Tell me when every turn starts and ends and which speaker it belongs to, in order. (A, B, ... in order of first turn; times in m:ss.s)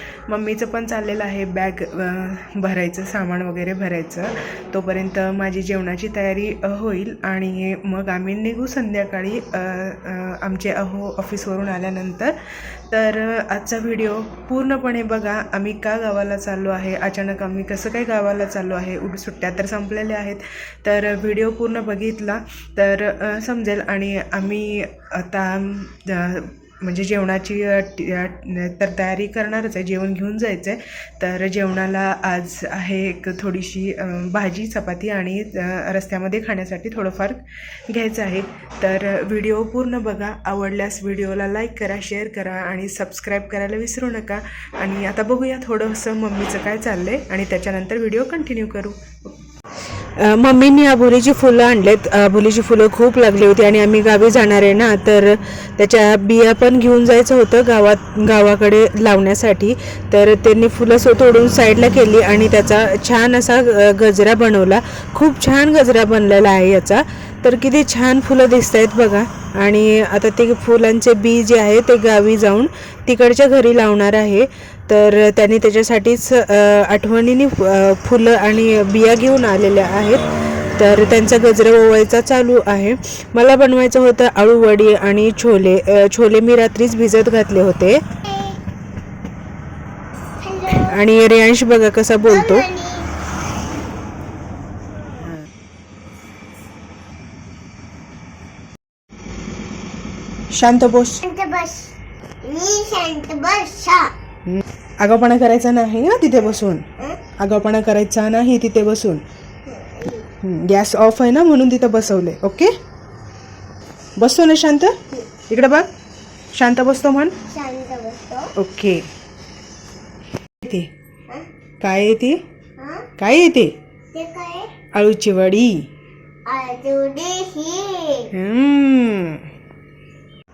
0:00.3-0:49.4 A
0:50.2-1:20.2 A
1:20.8-1:28.0 A
1:28.3-1:28.6 B
1:30.4-1:31.0 B
1:30.8-1:32.7 A
1:32.2-1:33.1 B
1:35.2-1:35.5 A
1:40.5-1:41.2 A
1:41.2-1:44.1 B
1:44.5-1:46.8 A
1:47.4-1:49.2 A
1:49.7-1:50.3 B
1:50.4-1:52.7 A
1:54.2-1:55.0 A
1:55.5-1:55.9 A
1:56.5-1:57.4 A
1:57.5-1:58.5 B
1:58.6-1:59.1 A
2:00.6-2:00.9 A
2:01.8-2:02.4 A
2:02.8-2:03.1 B
2:03.2-2:03.7 A
2:04.1-2:04.7 B
2:04.9-2:05.8 A
2:06.5-2:08.3 B
2:08.3-2:09.5 A